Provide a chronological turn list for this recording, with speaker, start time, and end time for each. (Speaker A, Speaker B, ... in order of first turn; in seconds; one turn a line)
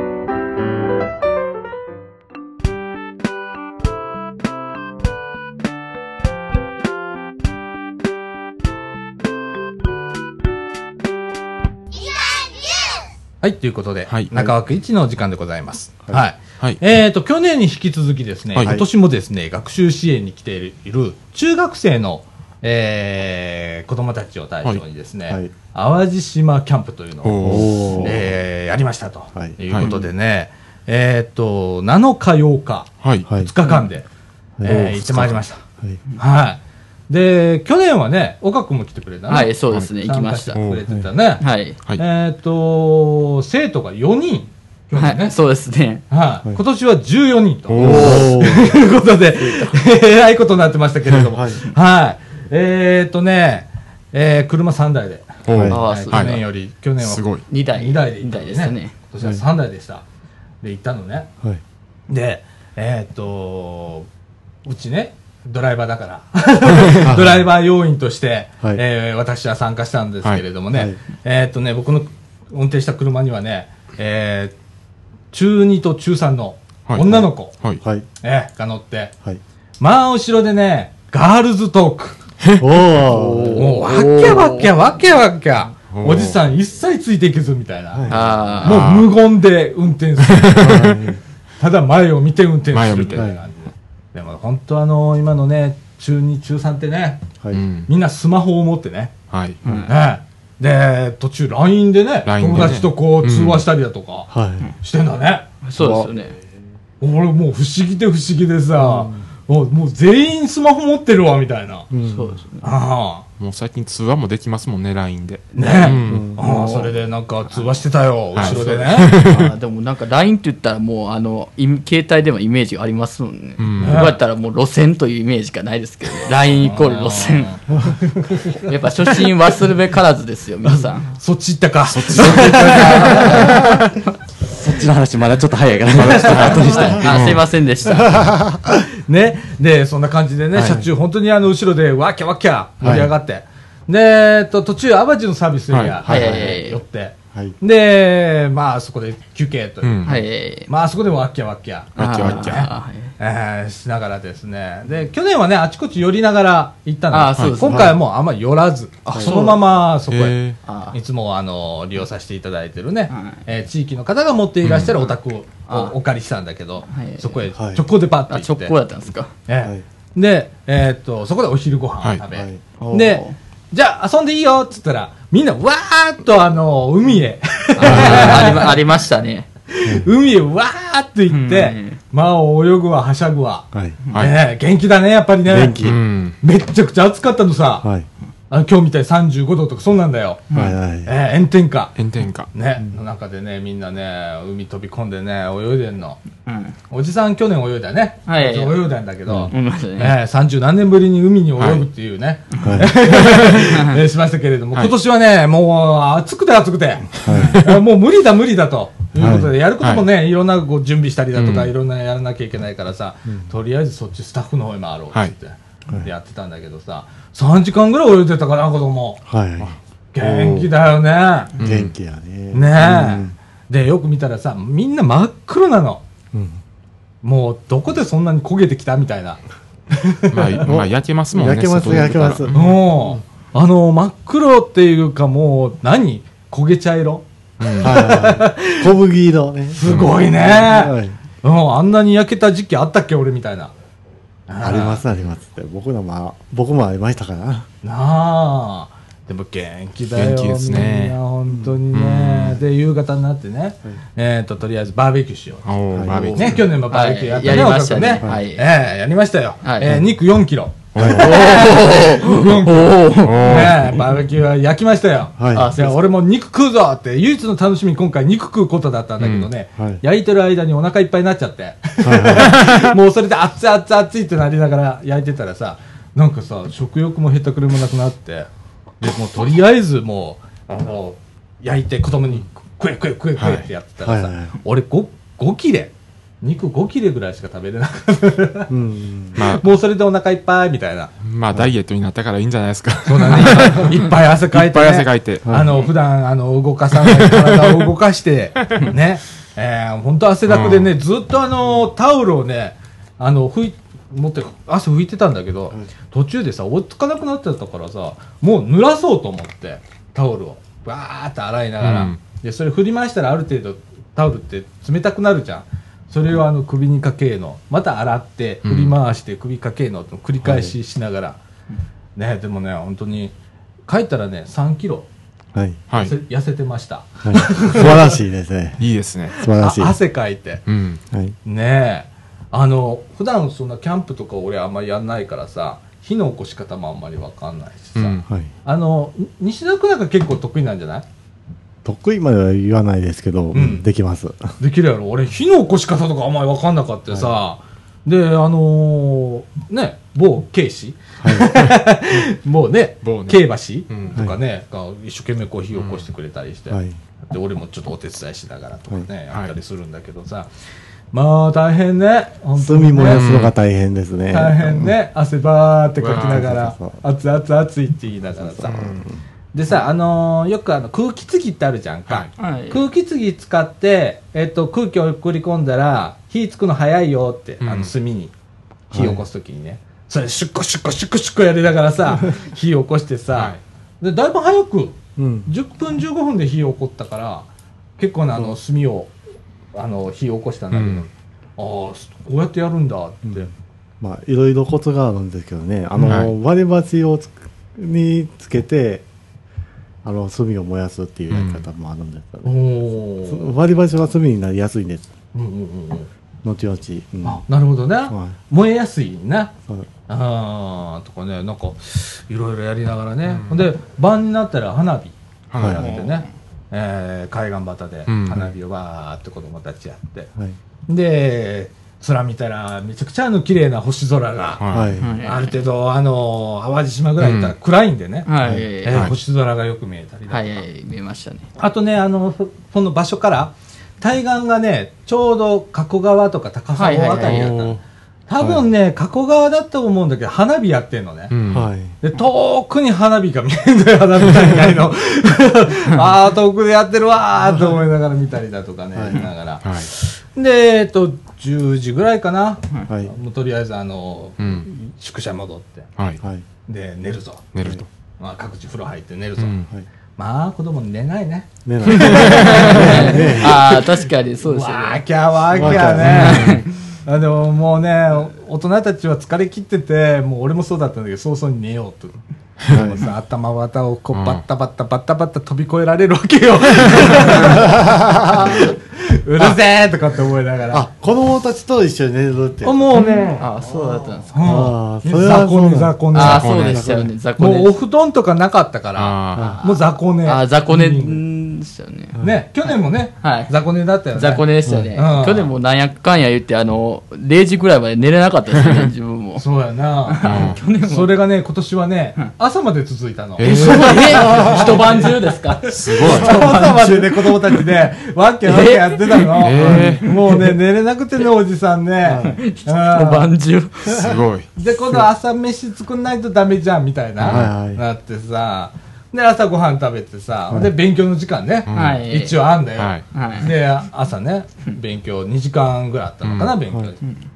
Speaker A: 13.4-34.1
Speaker B: 27.2-28.1
Speaker C: 27.4-28.3
Speaker D: 29.8-30.1
Speaker B: 33.0-33.3
Speaker C: 33.3-33.5
Speaker C: 34.6-36.0
Speaker A: 34.6-35.6
Speaker B: 34.6-35.3
Speaker A: 36.2-45.3
Speaker D: 39.3-40.6
Speaker B: 40.5-40.8
Speaker D: 41.4-41.8
Speaker D: 45.0-46.0
Speaker A: 46.1-60.0
Speaker B: 47.7-48.3
Speaker C: 47.8-48.8
Speaker D: 47.8-48.8
Speaker D: 49.4-49.8
Speaker C: 51.2-51.6
Speaker B: 55.4-56.4
Speaker C: 55.5-55.8
Speaker D: 55.7-56.4
Speaker B: 57.0-57.5
Speaker D: 57.5-58.9
Speaker A: 60.6-61.3
Speaker A: 62.1-64.1
Speaker A: 64.7-74.5
Speaker C: 67.0-67.4
Speaker C: 70.7-71.0
Speaker A: 75.3-77.5
Speaker B: 76.9-77.8
Speaker C: 77.0-77.3
Speaker C: 77.8-78.1
Speaker A: 78.2-79.1
Speaker A: 79.8-82.2
Speaker C: 82.6-83.8
Speaker D: 83.4-84.7
Speaker A: 83.4-90.8
Speaker B: 85.9-86.4
Speaker C: 87.9-88.7
Speaker D: 88.1-88.8
Speaker B: 88.6-89.1
Speaker B: 90.3-91.0
Speaker C: 90.6-91.2
Speaker A: 91.6-97.2
Speaker B: 92.7-93.3
Speaker B: 97.5-97.9
Speaker A: 97.9-99.1
Speaker B: 99.3-99.6
Speaker D: 99.7-99.9
Speaker A: 99.9-104.3
Speaker B: 102.3-103.7
Speaker C: 104.3-104.7
Speaker A: 104.8-105.5
Speaker D: 105.6-106.3
Speaker C: 105.8-106.3
Speaker A: 107.0-111.9
Speaker C: 108.8-109.2
Speaker C: 111.9-112.4
Speaker D: 112.0-112.7
Speaker A: 112.6-113.2
Speaker B: 113.4-116.3
Speaker A: 115.5-119.1
Speaker D: 115.6-116.9
Speaker C: 116.1-116.4
Speaker B: 118.4-119.5
Speaker D: 118.4-127.5
Speaker C: 119.3-119.5
Speaker B: 123.6-124.1
Speaker A: 123.8-124.2
Speaker A: 126.3-129.2
Speaker D: 128.6-131.1
Speaker A: 130.6-133.9
Speaker B: 131.9-133.6
Speaker D: 132.7-133.5
Speaker E: 134.4-137.1
Speaker B: 135.9-137.4
Speaker A: 135.9-137.0
Speaker D: 136.3-138.3
Speaker C: 137.9-138.8
Speaker A: 138.9-160.4
Speaker C: 140.5-140.9
Speaker C: 142.8-143.1
Speaker B: 145.7-146.0
Speaker C: 146.0-146.6
Speaker D: 146.1-146.8
Speaker B: 149.8-150.2
Speaker D: 150.1-150.7
Speaker B: 152.0-152.7
Speaker D: 152.0-153.1
Speaker D: 157.1-158.0
Speaker C: 157.6-158.0
Speaker D: 159.1-159.6
Speaker B: 160.1-160.6
Speaker D: 160.7-161.0
Speaker A: 160.9-168.8
Speaker D: 163.1-163.4
Speaker B: 164.6-165.1
Speaker D: 165.7-165.9
Speaker D: 166.9-167.4
Speaker C: 167.6-167.8
Speaker D: 168.3-169.3
Speaker A: 169.4-178.8
Speaker C: 172.3-173.2
Speaker D: 172.8-173.3
Speaker C: 177.8-178.5
Speaker D: 177.8-179.5
Speaker A: 179.7-185.9
Speaker D: 181.3-182.0
Speaker C: 183.7-184.0
Speaker C: 185.4-186.0
Speaker B: 185.8-186.4
Speaker A: 186.4-187.9
Speaker A: 188.5-190.4
Speaker D: 190.5-190.8
Speaker C: 190.5-191.1
Speaker A: 191.0-191.9
Speaker B: 191.9-192.5
Speaker A: 192.5-196.2
Speaker D: 196.4-196.8
Speaker A: 196.9-219.2
Speaker D: 198.3-198.9
Speaker D: 199.4-200.2
Speaker B: 201.6-201.9
Speaker C: 202.6-202.9
Speaker B: 203.2-203.6
Speaker D: 203.6-204.0
Speaker C: 207.2-207.6
Speaker D: 207.3-207.6
Speaker C: 209.2-209.5
Speaker B: 211.4-211.7
Speaker C: 219.3-220.7
Speaker A: 220.1-221.5
Speaker B: 221.6-221.9
Speaker C: 221.6-223.3
Speaker A: 222.5-226.0
Speaker C: 226.3-226.6
Speaker A: 227.2-230.6
Speaker B: 230.3-232.8
Speaker C: 230.6-233.2
Speaker A: 232.5-238.9
Speaker B: 237.6-238.0
Speaker C: 237.8-241.2
Speaker A: 239.7-243.7
Speaker B: 239.9-240.2
Speaker A: 244.5-245.0
Speaker C: 244.6-247.7
Speaker A: 247.8-278.5
Speaker B: 250.2-251.2
Speaker C: 251.5-251.8
Speaker B: 251.9-252.6
Speaker B: 255.7-256.7
Speaker C: 255.9-256.7
Speaker D: 256.9-258.6
Speaker D: 259.6-260.0
Speaker C: 259.8-260.1
Speaker B: 260.9-261.2
Speaker C: 260.9-261.4
Speaker D: 261.1-263.8
Speaker B: 263.2-264.0
Speaker C: 265.4-265.8
Speaker D: 265.5-266.1
Speaker B: 269.2-269.5
Speaker C: 272.0-272.6
Speaker B: 272.6-272.8
Speaker A: 279.0-288.7
Speaker B: 283.4-283.6
Speaker C: 284.0-284.6
Speaker C: 288.7-289.4
Speaker A: 289.3-291.1
Speaker B: 289.4-289.6
Speaker B: 291.2-295.9
Speaker A: 293.1-321.4
Speaker C: 295.4-295.7
Speaker B: 297.0-297.8
Speaker B: 300.5-300.9
Speaker B: 311.8-312.2
Speaker B: 318.6-318.9
Speaker C: 320.4-320.7
Speaker A: 322.2-323.3
Speaker A: 323.9-325.1
Speaker C: 325.5-325.8
Speaker A: 326.0-328.2
Speaker C: 327.2-328.8
Speaker B: 328.8-329.3
Speaker C: 329.3-329.9
Speaker A: 329.4-330.6
Speaker B: 330.7-331.0
Speaker A: 331.4-341.1
Speaker B: 337.9-338.2
Speaker C: 341.8-344.5
Speaker A: 343.5-343.9
Speaker A: 344.6-360.5
Speaker C: 351.2-351.6
Speaker B: 353.0-354.2
Speaker B: 355.8-356.1
Speaker C: 356.7-357.0
Speaker A: 361.1-363.3
Speaker C: 362.6-364.9
Speaker B: 363.1-363.5
Speaker A: 364.3-368.9
Speaker B: 366.0-366.5
Speaker C: 366.3-367.0
Speaker C: 368.4-369.2
Speaker B: 368.7-369.0
Speaker A: 369.5-378.3
Speaker D: 372.4-372.8
Speaker B: 377.6-377.9
Speaker C: 378.9-379.2
Speaker A: 378.9-387.5
Speaker C: 385.2-385.5
Speaker A: 388.0-389.1
Speaker A: 389.7-393.5
Speaker B: 390.7-391.1
Speaker C: 394.0-399.0
Speaker B: 396.1-396.3
Speaker C: 400.0-402.6
Speaker B: 401.3-401.6
Speaker A: 402.4-403.5
Speaker C: 403.2-405.1
Speaker A: 405.3-406.1
Speaker C: 406.4-407.4
Speaker A: 407.2-409.5
Speaker C: 408.1-408.4
Speaker A: 410.1-420.3
Speaker B: 413.3-413.6
Speaker B: 415.5-415.9
Speaker C: 415.6-415.9
Speaker D: 415.8-416.2
Speaker B: 418.1-418.5
Speaker A: 420.9-424.6
Speaker B: 424.6-424.9
Speaker C: 424.7-425.1
Speaker D: 425.0-425.6
Speaker A: 425.2-428.3
Speaker B: 427.2-427.5
Speaker D: 428.3-429.1
Speaker C: 428.4-428.7
Speaker A: 428.8-430.6
Speaker B: 428.9-429.1
Speaker D: 430.3-431.5
Speaker A: 431.6-441.3
Speaker D: 436.8-437.5
Speaker B: 437.3-437.6
Speaker C: 437.3-437.7
Speaker B: 441.3-441.7
Speaker C: 441.5-441.9
Speaker A: 442.0-455.9
Speaker C: 448.9-449.2
Speaker B: 449.6-449.9
Speaker B: 454.4-454.7
Speaker A: 456.7-457.5
Speaker B: 457.5-457.9
Speaker A: 458.2-459.6
Speaker B: 459.4-459.7
Speaker A: 460.2-480.9
Speaker C: 461.6-463.8
Speaker B: 461.9-463.1
Speaker D: 462.1-465.0
Speaker C: 465.5-466.6
Speaker B: 465.8-466.6
Speaker D: 466.1-466.7
Speaker C: 472.7-473.1
Speaker B: 474.1-474.4
Speaker B: 476.8-477.3
Speaker C: 477.4-478.6
Speaker C: 480.7-487.1
Speaker A: 482.6-483.5
Speaker D: 483.4-484.5
Speaker A: 484.3-486.6
Speaker D: 486.1-487.8
Speaker B: 486.1-486.9
Speaker A: 487.4-491.2
Speaker B: 488.9-489.6
Speaker C: 489.3-489.6
Speaker D: 489.4-493.5
Speaker A: 492.2-495.5
Speaker D: 494.1-499.4
Speaker C: 494.6-494.9
Speaker B: 498.6-498.9
Speaker A: 499.4-513.3
Speaker D: 500.1-501.1
Speaker B: 500.2-500.6
Speaker B: 503.4-504.3
Speaker D: 503.4-507.0
Speaker C: 504.1-504.9
Speaker B: 505.7-506.6
Speaker C: 506.1-507.1
Speaker D: 508.4-510.4
Speaker B: 509.4-510.1
Speaker C: 509.6-509.9
Speaker C: 512.0-512.4
Speaker D: 512.2-514.1
Speaker B: 513.9-514.5
Speaker A: 514.6-527.0
Speaker B: 517.2-517.5
Speaker C: 517.2-517.8
Speaker B: 521.7-522.0
Speaker D: 521.7-522.5
Speaker B: 522.8-523.1
Speaker D: 523.1-523.6
Speaker B: 526.2-526.5